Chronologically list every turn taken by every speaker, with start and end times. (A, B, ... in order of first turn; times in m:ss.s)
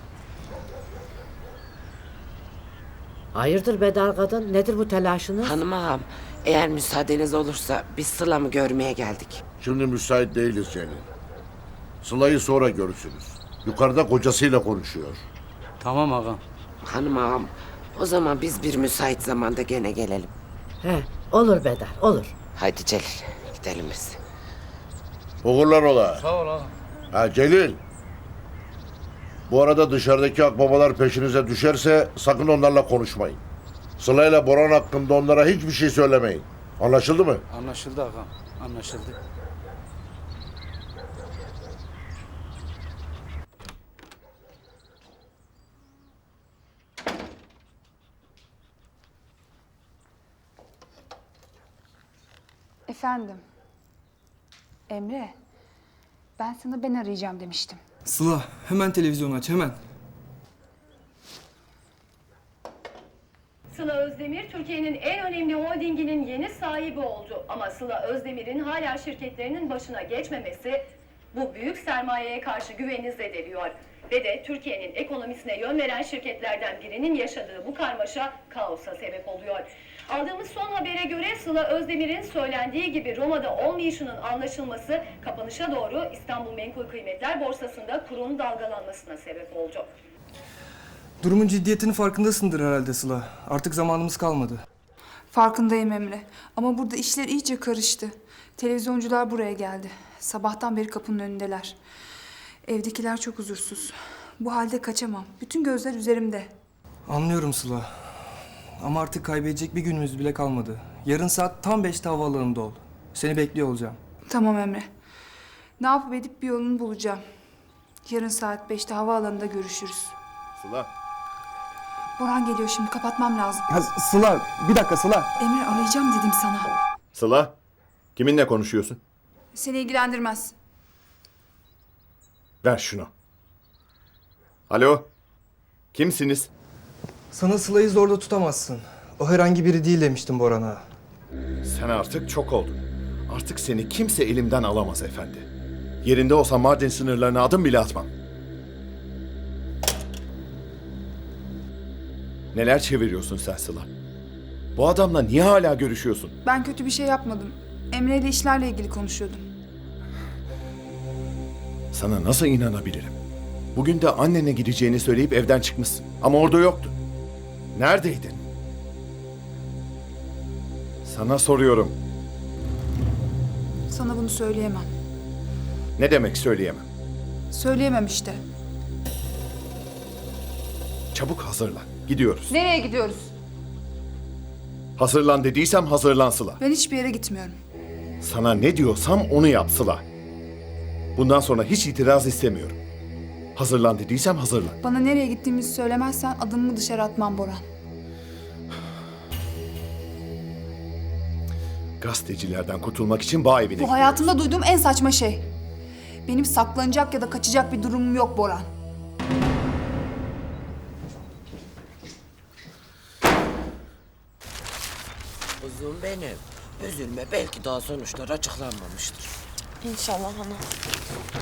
0:03.4-0:05.6 A
0:05.4-0:09.4 B
0:09.6-0:11.1 C
0:12.0-0:15.2 C
0:15.8-0:16.4 D
0:16.8-0:20.3 B
0:20.8-0:22.3 A
0:22.6-0:24.2 B
0:25.4-0:26.2 C
0:27.1-0:27.8 C
0:29.5-0:33.4 C
0:34.0-0:37.4 C
0:37.5-0:39.2 D
0:52.9-0:53.4 E
0:54.9-0:55.3 E
0:56.4-0:57.8 E
0:58.1-0:59.8 F
1:03.7-1:10.8 G
1:11.3-1:29.9 G
1:31.2-1:34.6 F
1:35.3-1:41.8 E
1:42.7-1:46.5 E
1:47.1-1:47.9 F
1:48.8-1:54.0 F
1:54.3-1:54.9 E
1:55.8-1:57.2 E
1:58.1-2:00.2 E
2:00.6-2:00.9 H
2:02.2-2:03.7 E
2:03.7-2:05.3 F
2:05.4-2:06.7 E
2:07.2-2:07.6 H
2:08.2-2:09.0 H
2:09.5-2:10.5 E
2:12.6-2:13.1 H
2:14.7-2:15.1 H
2:15.9-2:16.5 H
2:17.3-2:20.8 F
2:21.6-2:25.5 H
2:26.0-2:28.1 H
2:32.5-2:33.9 H
2:34.8-2:36.3 H
2:36.4-2:39.4 E
2:41.9-2:43.2 H
2:43.7-2:46.9 H
2:47.8-2:48.4 H
2:51.0-2:52.0 H
2:53.9-2:54.9 E
2:56.0-2:56.8 H
2:57.5-2:58.4 E
3:01.1-3:02.6 H
3:02.5-3:03.3 E
3:05.0-3:06.6 H
3:06.6-3:07.6 E
3:08.2-3:10.0 H
3:11.2-3:12.8 H
3:13.6-3:14.8 H
3:14.8-3:17.6 E
3:22.0-3:24.3 H
3:23.8-3:25.5 E
3:26.3-3:28.7 E
3:35.6-3:39.3 B